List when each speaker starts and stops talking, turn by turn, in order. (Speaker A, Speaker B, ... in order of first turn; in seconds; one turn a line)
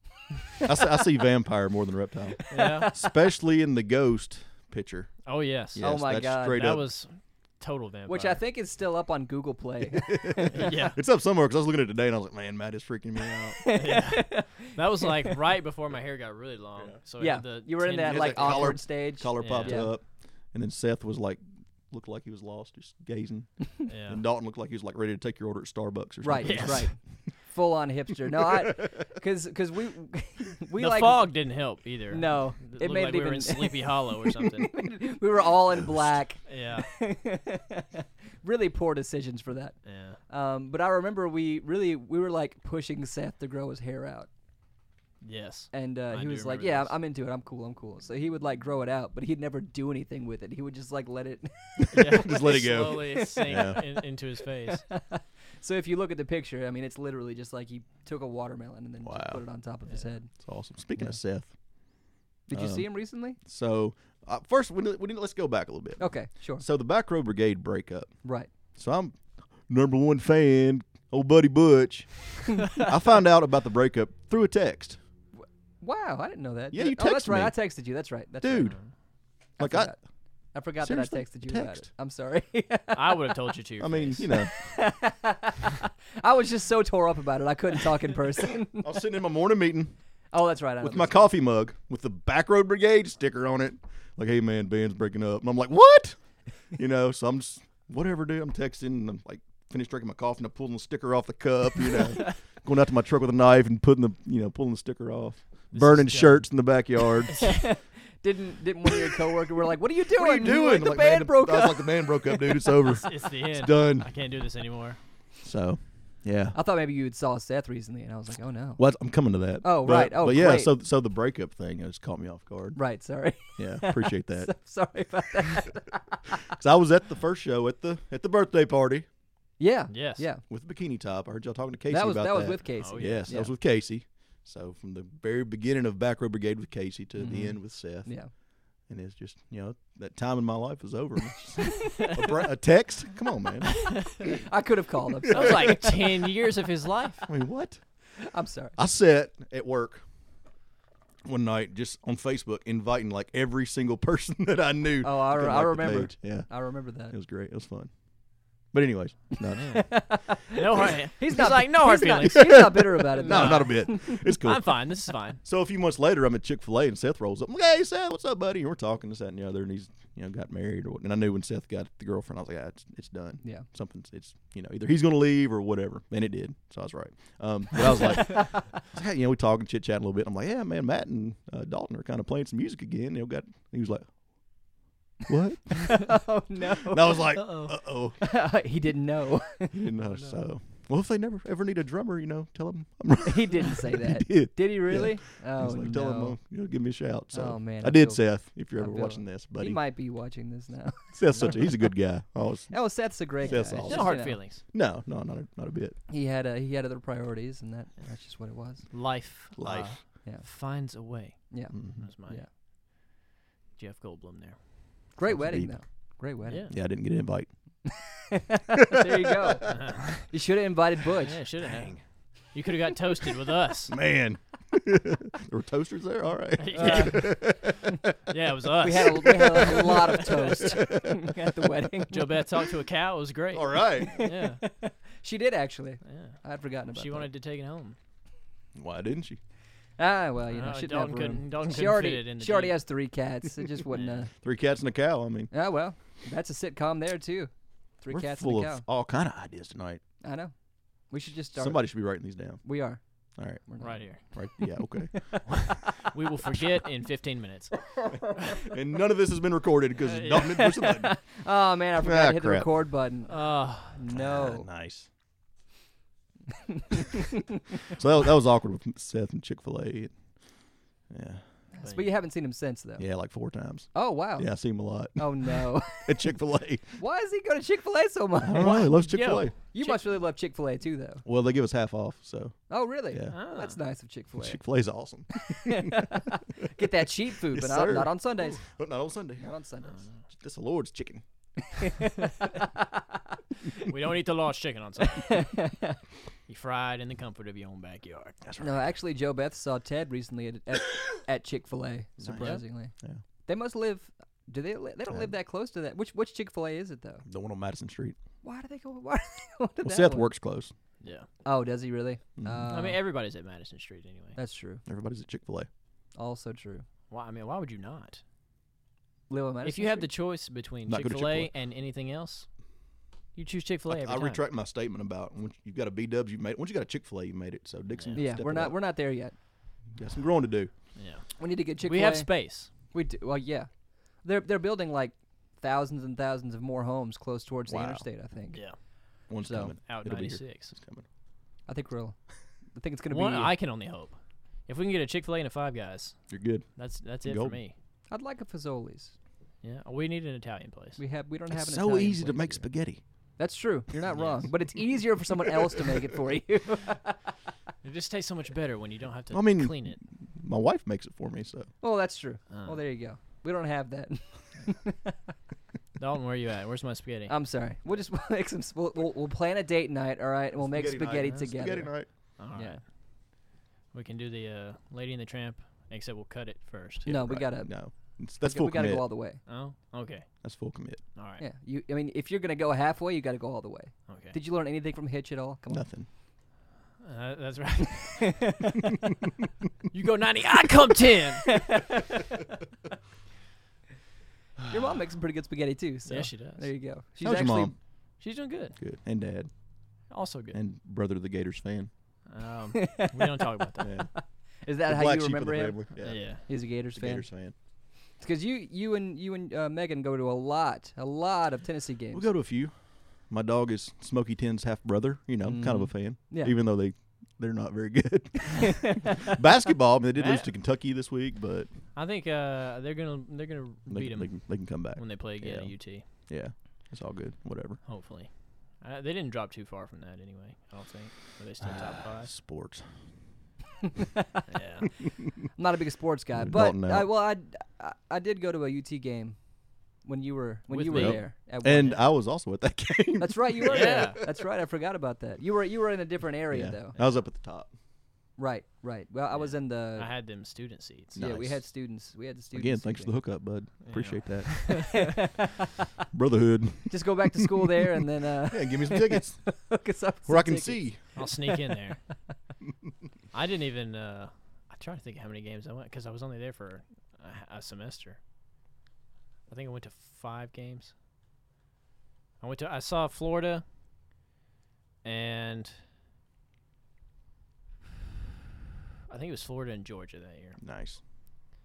Speaker A: 0.7-5.2
Speaker B: 2.5-2.9
Speaker C: 2.5-2.9
Speaker B: 5.2-5.9
Speaker A: 5.7-6.8
Speaker C: 5.8-6.6
Speaker B: 6.4-8.4
Speaker C: 8.1-10.7
Speaker A: 9.9-13.7
Speaker B: 10.5-11.0
Speaker C: 13.6-15.3
Speaker B: 13.7-18.8
Speaker C: 17.2-19.9
Speaker A: 18.0-26.9
Speaker B: 19.4-19.8
Speaker B: 23.9-24.2
Speaker C: 26.2-31.3
Speaker B: 26.4-26.9
Speaker B: 30.8-34.8
Speaker C: 32.1-39.8
Speaker B: 36.5-36.9
Speaker B: 39.9-40.2
Speaker C: 40.3-44.3
Speaker B: 45.2-46.9
Speaker C: 45.7-54.0
Speaker A: 51.8-53.8
Speaker B: 51.9-54.8
Speaker C: 54.7-60.3
Speaker A: 59.0-59.4
Speaker A: 60.4-61.5
Speaker C: 62.5-63.4
Speaker A: 62.5-68.1
Speaker C: 66.0-66.7
Speaker C: 68.2-68.5
Speaker A: 68.8-75.0
Speaker C: 72.5-72.9
Speaker C: 75.8-78.8
Speaker A: 76.7-77.5
Speaker A: 78.4-78.8
Speaker C: 79.6-80.0
Speaker A: 79.6-79.9
Speaker C: 80.5-83.4
Speaker A: 80.8-81.8
Speaker B: 82.9-84.3
Speaker A: 83.8-84.5
Speaker C: 84.4-88.9
Speaker A: 88.8-89.9
Speaker C: 90.3-91.3
Speaker A: 90.8-96.2
Speaker A: 96.7-107.5
Speaker B: 105.7-106.5
Speaker B: 107.3-107.6
Speaker C: 107.3-112.9
Speaker A: 110.1-114.1
Speaker B: 112.8-115.0
Speaker A: 115.4-116.6
Speaker C: 116.5-118.8
Speaker A: 118.8-122.8
Speaker C: 119.6-120.7
Speaker C: 122.8-126.4
Speaker A: 123.6-124.5
Speaker A: 126.5-129.1
Speaker C: 129.6-130.4
Speaker B: 129.9-130.3
Speaker A: 130.5-138.1
Speaker C: 131.9-133.5
Speaker B: 132.8-133.3
Speaker C: 137.2-138.3
Speaker A: 138.9-144.0
Speaker C: 144.2-146.0
Speaker B: 145.3-147.3
Speaker A: 145.3-145.8
Speaker A: 147.3-147.8
Speaker C: 148.2-148.8
Speaker A: 148.8-150.0
Speaker A: 151.2-156.5
Speaker C: 155.0-157.2
Speaker A: 157.1-157.9
Speaker A: 158.7-159.9
Speaker B: 159.4-165.4
Speaker C: 159.6-164.3
Speaker A: 162.2-164.8
Speaker A: 165.4-184.1
Speaker A: 185.3-186.1
Speaker C: 185.8-187.6
Speaker A: 186.8-188.2
Speaker C: 188.2-189.9
Speaker A: 189.7-199.8
Speaker B: 190.1-190.4
Speaker C: 193.2-196.4
Speaker C: 197.3-201.9
Speaker A: 201.2-206.0
Speaker C: 202.7-204.4
Speaker B: 203.8-204.6
Speaker C: 206.1-208.8
Speaker B: 208.9-212.4
Speaker A: 209.6-209.9
Speaker A: 211.7-212.0
Speaker B: 213.8-214.6
Speaker C: 215.2-216.7
Speaker A: 215.2-215.8
Speaker B: 216.5-216.7
Speaker A: 216.7-217.5
Speaker C: 217.9-221.4
Speaker A: 218.9-219.6
Speaker B: 219.7-220.3
Speaker B: 221.2-223.9
Speaker A: 221.7-222.0
Speaker A: 223.9-228.2
Speaker B: 226.6-227.6
Speaker C: 226.7-227.4
Speaker B: 228.3-230.7
Speaker C: 228.8-232.4
Speaker A: 228.9-231.4
Speaker B: 232.1-234.6
Speaker A: 233.5-234.2
Speaker C: 234.0-237.3
Speaker B: 236.0-236.4
Speaker B: 236.9-238.0
Speaker A: 238.8-239.4
Speaker C: 240.0-244.3
Speaker B: 240.5-242.8
Speaker B: 243.9-244.2
Speaker A: 244.4-245.5
Speaker C: 245.5-248.8
Speaker A: 248.1-250.0
Speaker C: 250.2-250.5
Speaker C: 251.1-252.0
Speaker A: 251.6-252.6
Speaker C: 252.6-253.0
Speaker A: 253.4-253.6
Speaker C: 253.7-255.6
Speaker B: 253.8-254.2
Speaker A: 254.2-255.7
Speaker B: 255.5-257.8
Speaker A: 258.5-261.1
Speaker B: 260.0-260.7
Speaker C: 260.4-264.7
Speaker A: 262.0-262.7
Speaker B: 263.3-264.0
Speaker A: 264.1-265.1
Speaker C: 266.7-267.4
Speaker A: 267.9-270.1
Speaker A: 271.1-271.4
Speaker C: 271.7-273.1
Speaker B: 271.8-272.1
Speaker A: 273.0-276.9
Speaker C: 273.9-274.5
Speaker C: 275.2-276.3
Speaker C: 277.0-278.9
Speaker A: 278.4-279.5
Speaker B: 278.6-280.0
Speaker C: 279.7-281.2
Speaker A: 281.2-282.6
Speaker C: 282.7-284.6
Speaker B: 283.3-283.8
Speaker A: 284.4-286.8
Speaker C: 285.3-288.6
Speaker A: 287.3-289.5
Speaker C: 289.4-290.0
Speaker A: 290.4-291.2
Speaker C: 291.7-293.9
Speaker B: 293.8-295.6
Speaker C: 295.1-296.0
Speaker B: 296.5-298.4
Speaker A: 298.4-298.8
Speaker C: 298.6-302.9
Speaker A: 302.2-303.2
Speaker C: 303.5-307.2
Speaker A: 307.3-308.2
Speaker C: 308.4-310.3
Speaker A: 309.8-310.7
Speaker B: 311.0-311.3
Speaker C: 311.4-313.0
Speaker A: 312.4-312.7
Speaker B: 312.7-314.4
Speaker C: 314.4-314.8
Speaker A: 314.9-315.7
Speaker C: 316.2-316.9
Speaker B: 317.1-318.2
Speaker C: 319.3-320.1
Speaker B: 319.6-322.5
Speaker A: 320.9-321.5
Speaker B: 323.4-324.4
Speaker A: 323.9-328.8
Speaker C: 328.2-329.3
Speaker A: 329.9-330.7
Speaker B: 331.0-331.3
Speaker C: 331.4-333.7
Speaker B: 331.8-332.7
Speaker C: 334.2-338.6
Speaker A: 337.7-338.1
Speaker A: 339.3-341.1
Speaker C: 339.4-339.7
Speaker B: 339.9-340.7
Speaker C: 341.7-342.2
Speaker C: 342.8-343.5
Speaker B: 343.1-346.2
Speaker A: 346.3-346.7
Speaker B: 346.8-347.8
Speaker A: 347.2-347.6
Speaker C: 348.1-349.1
Speaker B: 349.6-351.0
Speaker C: 351.0-352.6
Speaker A: 351.5-353.0
Speaker C: 353.4-357.2
Speaker B: 354.1-354.5
Speaker B: 357.8-360.0
Speaker A: 359.3-361.7
Speaker C: 361.8-365.2
Speaker B: 362.5-362.8
Speaker B: 366.0-367.3
Speaker C: 367.3-371.9
Speaker A: 370.6-372.1
Speaker B: 372.4-372.8
Speaker C: 372.5-372.8
Speaker B: 373.9-377.1
Speaker A: 377.1-379.1
Speaker C: 377.1-377.7
Speaker C: 378.4-379.4
Speaker B: 379.5-380.3
Speaker A: 380.4-381.0
Speaker B: 381.2-381.4
Speaker C: 381.4-385.9
Speaker B: 384.1-384.4
Speaker A: 385.7-386.1
Speaker B: 387.0-388.5
Speaker C: 388.0-389.0
Speaker B: 389.9-391.8
Speaker C: 391.4-392.6
Speaker C: 394.7-397.7
Speaker B: 396.1-396.7
Speaker A: 397.2-397.8
Speaker B: 398.2-398.8
Speaker A: 398.8-399.5
Speaker B: 400.1-400.6
Speaker A: 400.5-401.9
Speaker B: 402.3-403.9
Speaker C: 402.7-405.8
Speaker A: 403.8-404.1
Speaker A: 404.9-407.6
Speaker B: 406.0-406.4
Speaker C: 406.5-407.3
Speaker C: 408.2-412.3
Speaker A: 412.1-412.7
Speaker A: 413.3-421.7
Speaker C: 415.4-416.5
Speaker C: 418.6-419.3
Speaker B: 420.1-420.5
Speaker B: 421.9-426.1
Speaker A: 423.9-427.8
Speaker B: 427.9-432.3
Speaker A: 431.6-432.9
Speaker B: 434.5-435.0
Speaker C: 435.5-439.4
Speaker A: 436.4-437.1
Speaker C: 440.0-442.0
Speaker B: 440.7-441.2
Speaker A: 440.9-444.2
Speaker C: 443.2-447.0
Speaker B: 443.7-444.2
Speaker A: 446.5-447.7
Speaker C: 448.4-450.1
Speaker B: 449.3-451.2
Speaker A: 451.2-451.6
Speaker C: 451.2-453.1
Speaker A: 452.5-454.8
Speaker B: 453.9-455.1
Speaker C: 454.6-455.9
Speaker A: 456.1-457.9
Speaker C: 456.9-461.6
Speaker A: 458.5-459.4
Speaker A: 460.3-461.0
Speaker B: 461.2-462.0
Speaker B: 463.3-468.2
Speaker B: 469.5-470.9
Speaker B: 472.4-473.6
Speaker B: 475.0-475.8
Speaker B: 479.1-480.6
Speaker A: 480.6-481.0